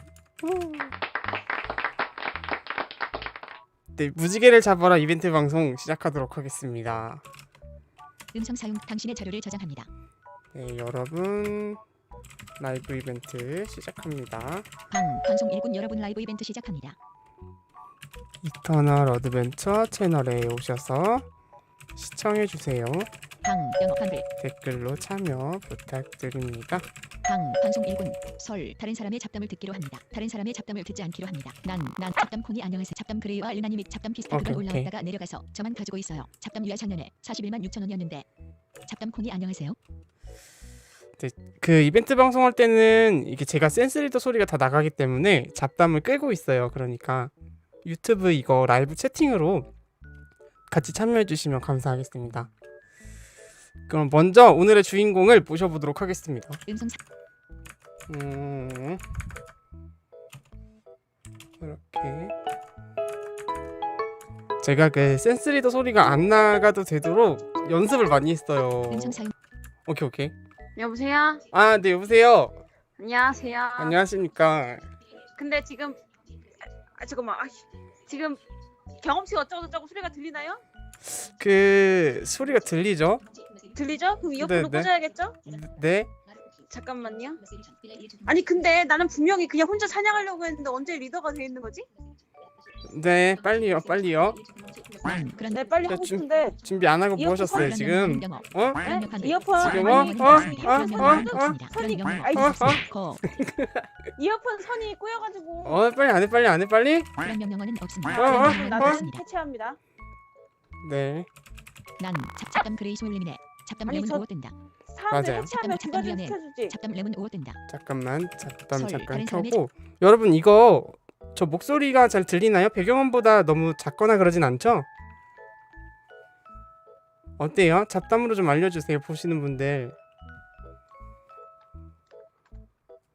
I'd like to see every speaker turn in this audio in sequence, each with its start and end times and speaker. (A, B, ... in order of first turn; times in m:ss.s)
0:00.4-0:01.0 A
0:03.9-0:07.2 A
0:08.3-0:09.9 B
0:10.5-0:11.8 A
0:12.6-0:14.7 A
0:14.9-0:17.0 B
0:18.4-0:21.2 A
0:22.0-0:23.1 A
0:23.4-0:24.2 B
0:24.4-0:26.8 A
0:27.2-0:38.2 B
0:34.3-0:34.9 A
0:38.8-0:39.8 B
0:41.2-0:47.3 A
0:47.8-0:49.7 A
0:50.7-0:52.5 A
0:53.9-0:56.6 A
0:56.7-0:57.0 B
0:58.1-0:59.0 A
1:01.6-1:02.3 A
1:04.6-1:09.2 A
1:08.9-1:09.3 B
1:09.9-1:10.3 A
1:10.8-1:11.4 C
1:11.5-1:12.6 A
1:13.0-1:14.0 C
1:13.8-1:14.9 A
1:15.4-1:16.0 C
1:17.0-1:18.4 C
1:19.0-1:20.6 C
1:21.0-1:23.2 A
1:23.7-1:25.4 C
1:24.4-1:24.9 A
1:25.5-1:26.1 A
1:26.7-1:27.4 C
1:28.2-1:31.8 C
1:32.9-1:34.4 A
1:35.0-1:35.6 B
1:35.5-1:36.6 C
1:35.9-1:38.8 A
1:37.2-1:37.8 C
1:37.5-1:43.2 B
1:38.8-1:42.7 C
1:39.6-1:41.6 A
1:42.3-1:43.9 A
1:44.2-1:45.8 C
1:45.6-1:47.1 A
1:47.2-1:49.2 B
1:48.1-1:49.8 C
1:48.2-1:49.0 A
1:50.8-1:51.3 A
1:52.0-1:54.6 B
1:53.8-1:54.2 C
1:54.9-1:56.8 C
1:55.1-1:55.5 A
1:55.6-1:57.6 B
1:57.7-2:04.9 A
1:58.7-1:59.6 B
2:07.4-2:09.9 A